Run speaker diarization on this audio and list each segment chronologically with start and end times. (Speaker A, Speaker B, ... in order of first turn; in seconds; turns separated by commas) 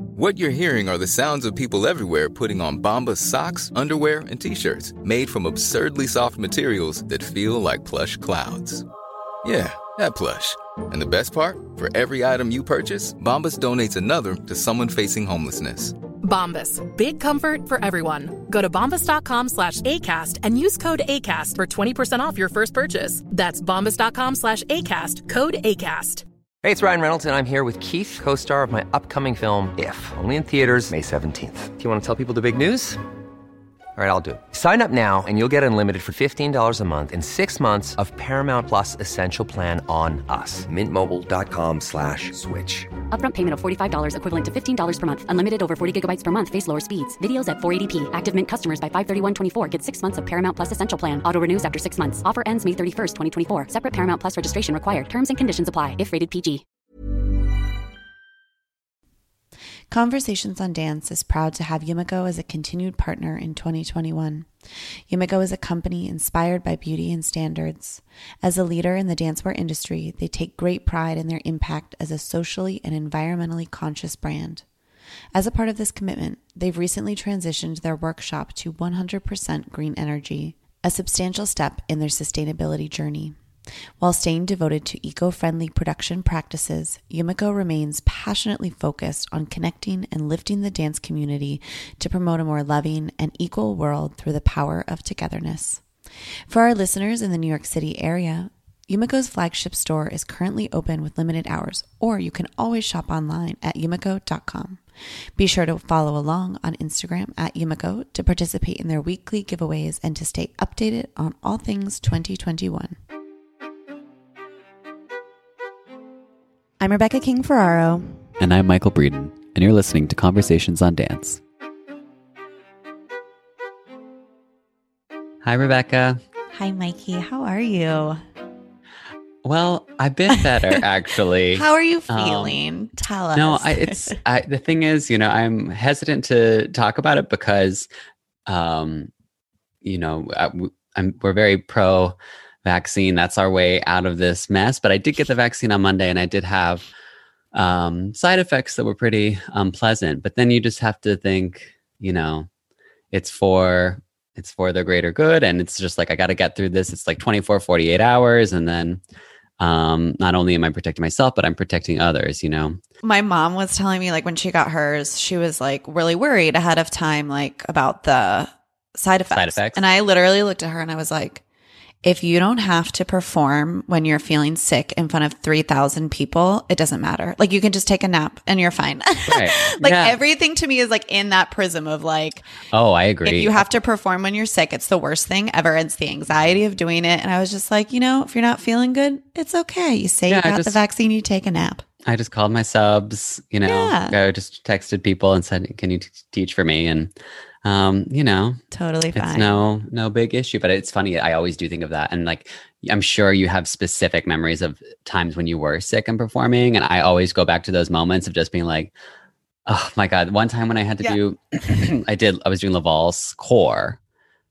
Speaker A: 0.1-8.8, Speaker A: 9.4-15.9, Speaker B: 16.2-26.2, Speaker C: 26.6-33.0, Speaker C: 34.0-42.9, Speaker D: 43.1-56.6, Speaker E: 59.9-64.5, Speaker E: 65.1-74.6, Speaker E: 75.3-83.4, Speaker E: 84.0-95.8, Speaker E: 96.5-104.8, Speaker E: 105.4-113.0, Speaker E: 116.8-118.2, Speaker F: 118.4-121.4, Speaker F: 125.4-126.2, Speaker E: 126.5-128.2, Speaker F: 129.4-132.6, Speaker E: 131.5-134.2, Speaker F: 133.3-137.9, Speaker F: 138.4-139.1, Speaker F: 139.8-146.8, Speaker F: 147.5-152.5, Speaker F: 153.1-159.0, Speaker F: 159.6-162.8, Speaker E: 163.0-171.4, Speaker F: 169.3-169.8, Speaker E: 172.0-182.4, Speaker F: 179.3-180.2, Speaker F: 182.7-183.6, Speaker E: 183.2-191.8, Speaker F: 190.3-190.8, Speaker F: 192.0-197.1, Speaker E: 193.7-194.2, Speaker F: 197.6-198.6, Speaker E: 198.7-199.5, Speaker F: 199.1-208.9, Speaker F: 209.7-214.0